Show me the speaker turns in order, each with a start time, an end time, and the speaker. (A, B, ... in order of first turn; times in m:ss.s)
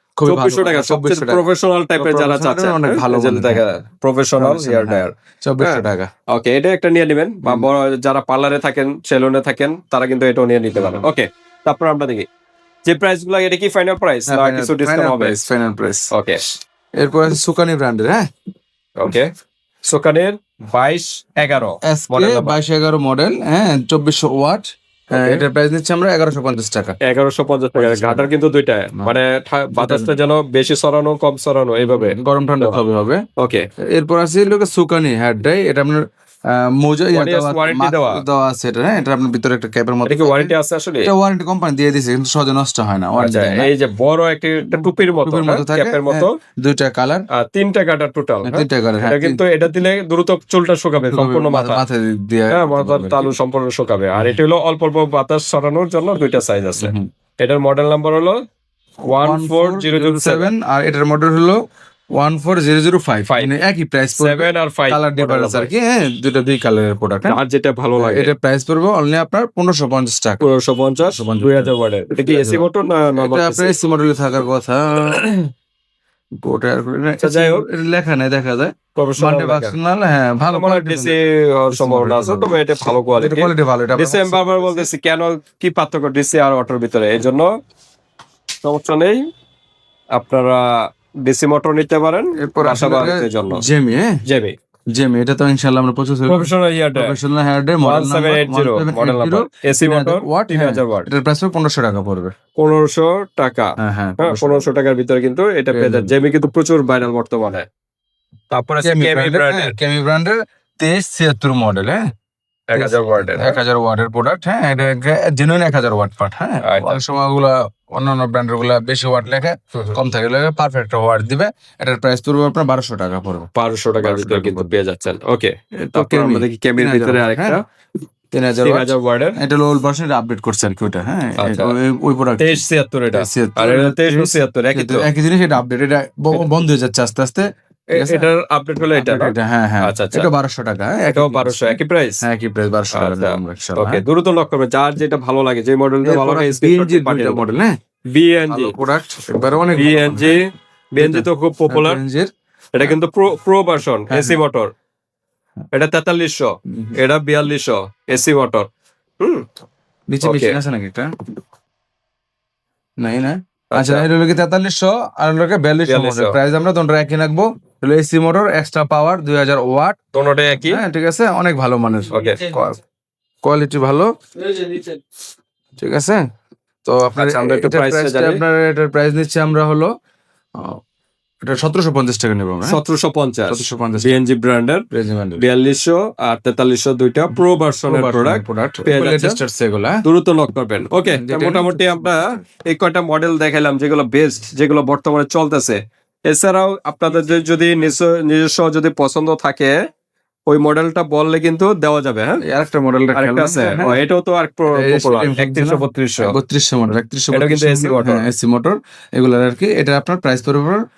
0:00.2-0:01.4 A
0:00.2-0:12.3 B
0:02.0-0:03.6 A
0:04.4-0:06.1 A
0:12.8-0:15.5 B
0:14.3-0:16.1 A
0:16.1-0:16.4 B
0:17.0-0:18.3 A
0:19.0-0:19.3 B
0:19.8-0:22.6 B
0:21.8-0:27.0 A
0:25.1-0:25.4 B
0:27.0-0:32.8 B
0:27.8-0:28.3 A
0:29.8-0:30.1 A
0:32.0-0:33.2 A
0:33.4-0:33.6 B
0:33.9-0:36.0 A
0:36.5-0:40.5 A
0:37.1-0:38.2 B
0:40.1-0:41.1 B
0:41.0-0:43.7 A
0:43.2-0:46.3 B
0:44.7-0:47.2 A
0:47.3-0:51.8 B
0:48.4-0:49.4 A
0:51.1-0:53.3 A
0:52.5-0:58.4 B
0:56.8-0:57.1 A
0:59.0-1:01.6 A
0:59.1-1:00.5 B
1:02.2-1:07.4 A
1:03.3-1:03.5 B
1:04.1-1:05.7 B
1:07.2-1:08.3 B
1:08.0-1:10.4 A
1:10.4-1:13.7 B
1:11.1-1:12.6 A
1:13.2-1:15.5 A
1:16.4-1:21.1 A
1:17.2-1:17.6 B
1:19.0-1:19.8 B
1:20.5-1:27.5 B
1:21.7-1:22.6 A
1:23.2-1:24.9 A
1:28.6-1:29.2 B
1:30.1-1:30.6 B
1:31.2-1:33.6 B
1:32.4-1:34.2 A
1:34.2-1:34.5 B
1:35.0-1:42.3 A
1:36.3-1:37.2 B
1:37.8-1:41.1 B
1:42.6-1:47.7 B
1:43.8-1:44.6 A
1:45.7-1:46.1 A
1:48.5-1:49.7 B
1:48.8-1:52.0 A
1:52.7-1:53.6 B
1:52.7-2:03.5 A
1:56.6-1:57.0 B
2:03.5-2:07.6 B
2:04.0-2:04.7 A
2:05.8-2:07.6 A
2:08.3-2:18.3 A
2:08.6-2:09.4 B
2:11.4-2:11.8 B
2:12.4-2:15.1 B
2:17.9-2:20.3 B
2:18.9-2:24.0 A
2:21.1-2:22.2 B
2:22.9-2:27.4 B
2:26.0-2:27.7 A
2:28.1-2:28.7 B
2:28.5-2:30.4 A
2:29.8-2:30.4 B
2:30.9-2:32.0 B
2:31.0-2:32.3 A
2:32.8-2:34.7 B
2:34.1-2:34.4 A
2:35.7-2:38.7 B
2:39.2-2:39.4 B
2:40.1-2:41.1 A
2:40.2-2:40.6 B
2:43.0-2:50.0 A
2:43.7-2:44.1 B
2:45.8-2:46.4 B
2:50.1-2:50.8 B
2:50.7-2:52.8 A
2:52.1-2:52.4 B
2:53.4-2:54.1 A
2:54.5-2:54.9 B
2:55.8-2:56.2 A
2:56.8-2:59.9 A
2:57.2-2:58.4 B
3:01.4-3:02.8 A
3:02.6-3:04.8 B
3:03.5-3:04.2 A
3:04.9-3:05.4 A
3:05.4-3:09.4 B
3:07.3-3:10.0 A
3:10.0-3:19.7 B
3:11.1-3:12.4 A
3:20.5-3:22.4 B
3:22.4-3:24.0 A
3:23.1-3:26.3 B
3:24.7-3:30.8 A
3:27.3-3:28.3 B